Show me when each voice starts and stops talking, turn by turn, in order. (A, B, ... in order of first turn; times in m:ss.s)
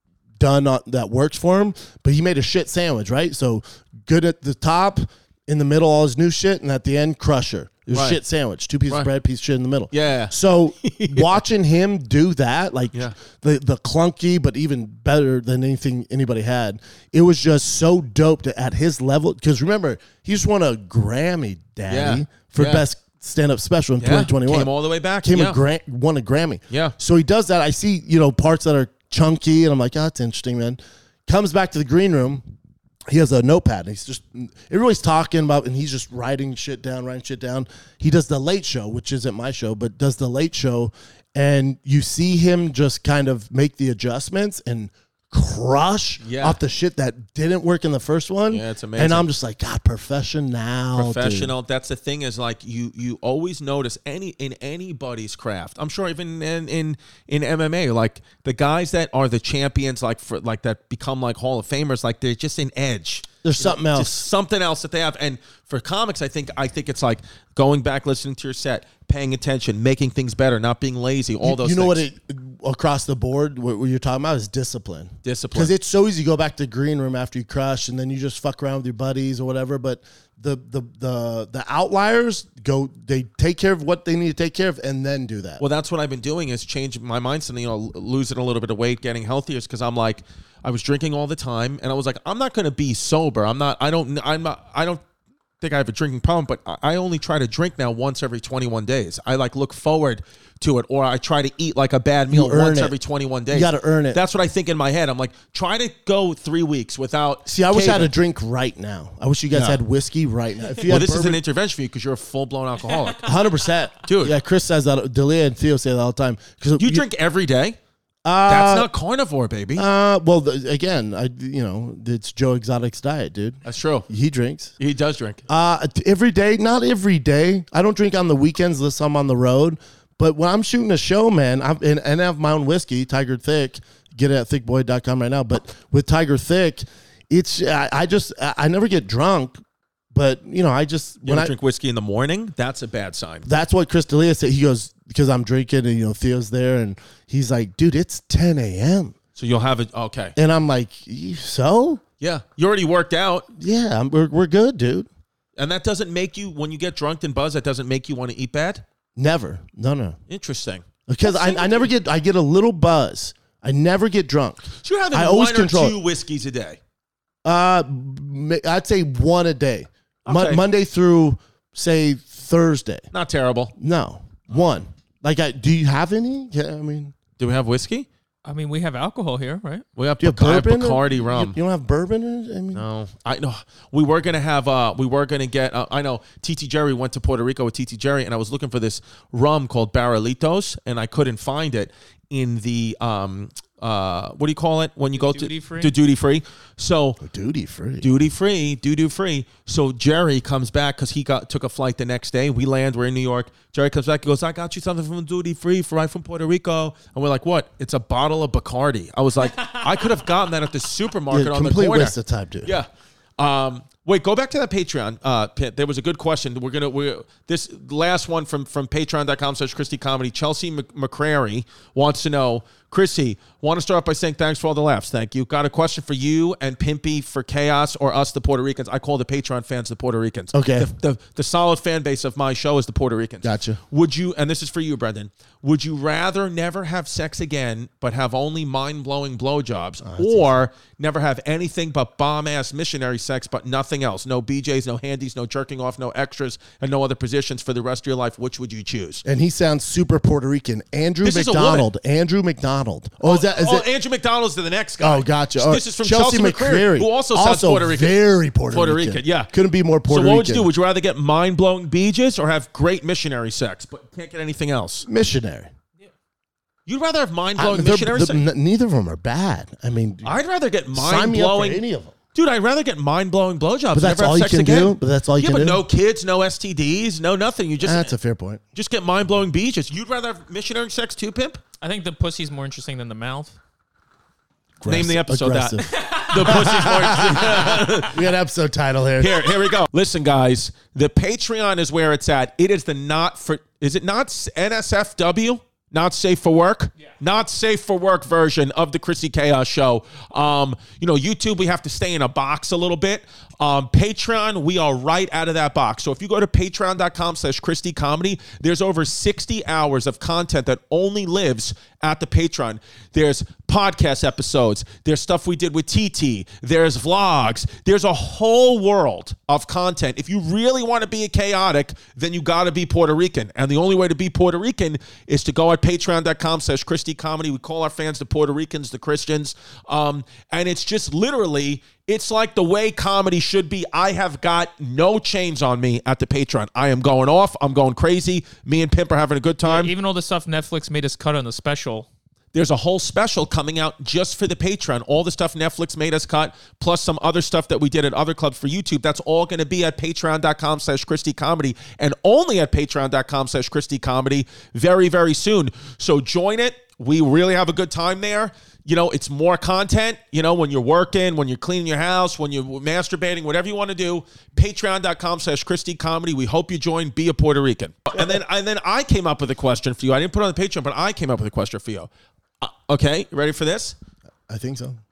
0:00.4-0:24.7 A
0:07.9-0:08.2 B
0:09.9-0:11.4 B
0:21.9-0:22.8 B
0:24.0-0:25.6 B
0:25.2-0:32.4 A
0:26.7-0:27.0 B
0:33.1-0:51.5 A
0:46.2-0:46.6 B
0:48.5-0:49.3 B
0:51.0-1:12.0 B
1:03.4-1:04.3 A
1:11.4-1:25.6 A
1:15.2-1:15.7 B
1:25.6-1:35.0 B
1:35.6-1:48.1 B
1:42.3-1:43.0 A
1:43.5-1:44.2 A
1:47.4-1:51.4 A
1:49.5-1:49.8 B
1:50.9-1:53.4 B
1:53.2-1:57.0 A
1:54.0-1:54.4 B
1:56.8-1:57.8 B
1:58.2-1:58.9 A
1:58.5-1:59.9 B
1:59.8-2:04.7 A
2:03.6-2:04.1 B
2:04.8-2:05.4 B
2:05.5-2:19.6 A
2:20.1-2:21.5 A
2:21.2-2:23.4 B
2:23.4-2:29.2 A
2:29.4-2:30.4 B
2:30.4-2:32.0 A
2:32.2-2:33.5 B
2:33.6-2:35.1 A
2:35.6-2:38.8 B
2:39.2-2:40.2 A
2:40.3-2:40.8 B
2:41.1-2:46.0 A
2:44.8-2:46.8 B
2:47.4-2:53.0 A
2:50.3-2:50.6 B
2:53.1-2:53.7 B
2:53.8-2:57.1 A
2:57.4-2:58.1 B
2:58.4-2:59.8 C
3:00.0-3:01.6 B
3:00.2-3:02.8 A
3:02.7-3:17.2 B
3:15.1-3:15.9 C
3:17.2-3:18.1 A
3:18.0-4:09.2 B
3:31.3-3:32.7 A
3:50.5-3:50.9 A
3:53.4-3:53.8 A
4:00.0-4:00.5 A
4:09.2-4:13.9 A
4:11.2-4:11.9 B
4:13.2-4:19.5 B
4:15.0-4:20.7 A
4:20.1-4:25.0 B
4:25.0-4:25.7 A
4:26.9-4:28.4 B
4:27.6-4:30.4 A
4:30.2-4:31.8 B
4:30.9-4:32.1 A
4:32.3-4:38.1 B
4:33.9-4:35.8 A
4:37.8-4:38.6 A
4:38.7-4:41.6 B
4:41.8-4:43.6 C
4:44.8-4:49.4 A
4:44.9-4:48.3 B
4:45.9-4:47.9 C
4:49.2-5:39.9 B
5:39.6-5:42.1 C
5:42.5-6:14.0 B
6:14.5-6:15.0 A